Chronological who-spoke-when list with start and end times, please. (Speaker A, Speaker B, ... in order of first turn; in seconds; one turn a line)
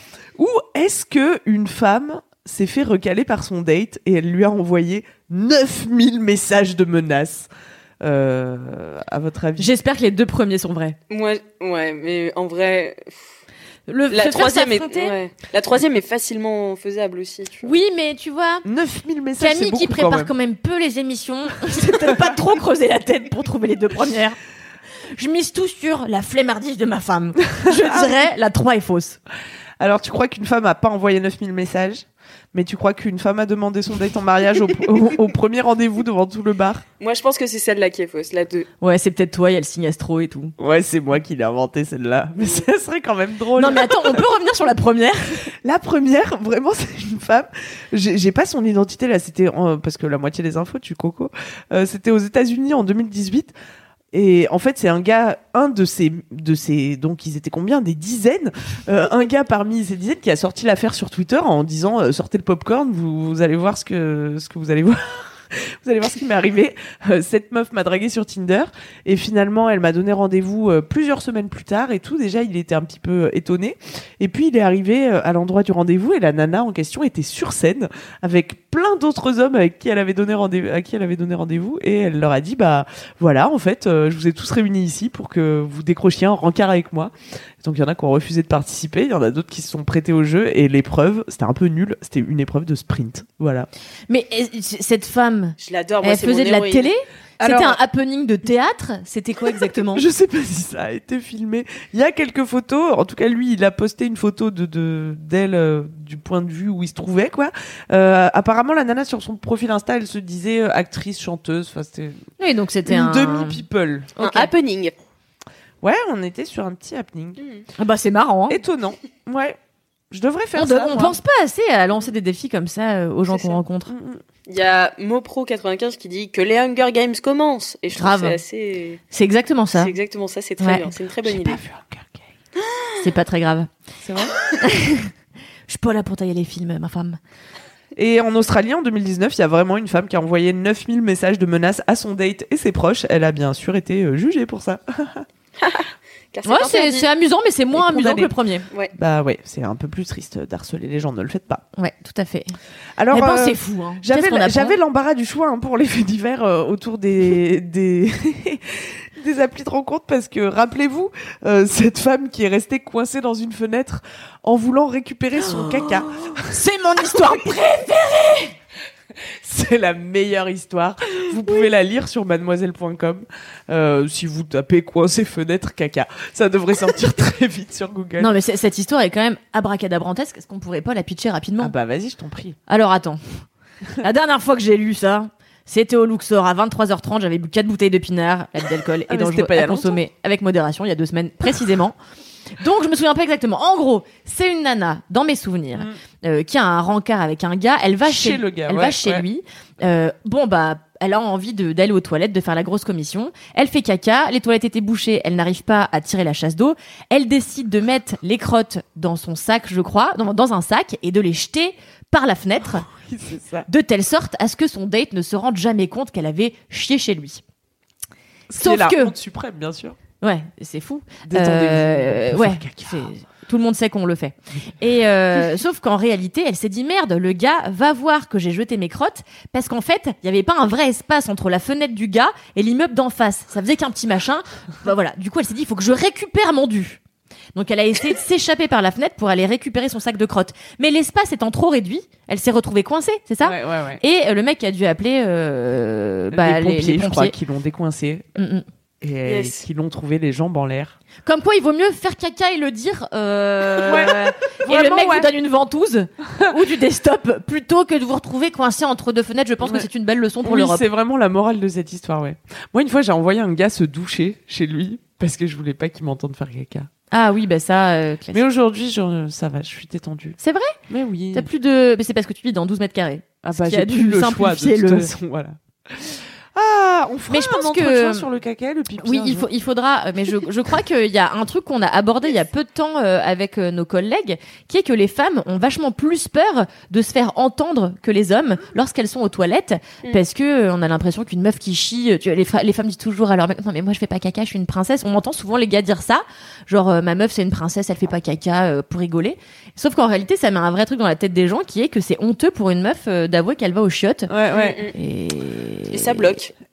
Speaker A: 0.3-7.5
Speaker A: 8.0-9.7
Speaker B: 9.6-10.9
Speaker C: 11.1-13.3
Speaker B: 13.9-15.2
Speaker C: 14.1-17.7
Speaker B: 17.6-18.6
Speaker A: 18.6-20.3
Speaker B: 19.4-24.4
Speaker B: 25.1-29.2
Speaker A: 27.6-28.1
Speaker A: 29.8-36.8
Speaker C: 37.0-38.7
Speaker B: 38.8-40.5
Speaker A: 40.6-44.2
Speaker B: 43.5-45.4
Speaker A: 45.6-53.5
Speaker A: 54.1-93.7
Speaker B: 94.1-100.0
Speaker C: 95.6-96.9
Speaker A: 97.4-97.8
Speaker A: 99.9-112.2
Speaker B: 112.4-113.6
Speaker A: 112.8-114.1
Speaker B: 114.2-114.5
Speaker C: 114.2-114.9
Speaker A: 115.8-117.4
Speaker C: 117.4-117.7
Speaker B: 117.8-118.6
Speaker A: 118.5-119.6
Speaker A: 120.1-121.2
Speaker B: 120.5-123.9
Speaker C: 123.3-123.6
Speaker A: 123.9-124.2
Speaker C: 124.5-129.0
Speaker B: 127.9-128.4
Speaker B: 129.1-129.9
Speaker C: 129.7-131.6
Speaker B: 130.6-130.9
Speaker A: 131.2-132.2
Speaker C: 132.6-133.0
Speaker B: 133.0-133.7
Speaker A: 134.0-134.3
Speaker B: 134.6-135.1
Speaker B: 135.7-137.2
Speaker A: 137.9-145.2
Speaker C: 145.6-147.1
Speaker B: 146.4-148.7
Speaker A: 147.7-148.3
Speaker A: 148.9-151.6
Speaker B: 151.8-152.6
Speaker A: 152.9-166.6
Speaker B: 153.1-154.8
Speaker B: 166.4-168.5
Speaker A: 169.2-178.3
Speaker B: 178.2-181.7
Speaker A: 181.6-182.6
Speaker B: 182.7-183.2
Speaker B: 184.0-191.9
Speaker A: 189.1-190.0
Speaker B: 192.6-212.8
Speaker A: 198.0-199.2
Speaker A: 212.6-213.7
Speaker B: 213.7-217.4
Speaker A: 218.5-220.0
Speaker B: 218.6-219.1
Speaker B: 220.2-237.0
Speaker A: 221.2-223.1
Speaker B: 237.5-247.3
Speaker A: 243.4-244.0
Speaker A: 246.3-248.3
Speaker B: 248.3-248.6
Speaker A: 249.0-250.9
Speaker C: 249.2-249.6
Speaker B: 251.2-260.8
Speaker A: 253.8-255.3
Speaker A: 259.6-259.9
Speaker A: 260.4-266.9
Speaker B: 267.1-268.4
Speaker A: 268.3-270.4
Speaker B: 270.4-270.8
Speaker A: 270.9-271.5
Speaker B: 271.3-275.1
Speaker A: 273.4-279.5
Speaker B: 277.3-278.2
Speaker B: 279.0-304.3
Speaker A: 304.3-304.8
Speaker C: 304.5-304.9
Speaker B: 304.9-306.4
Speaker C: 305.9-306.5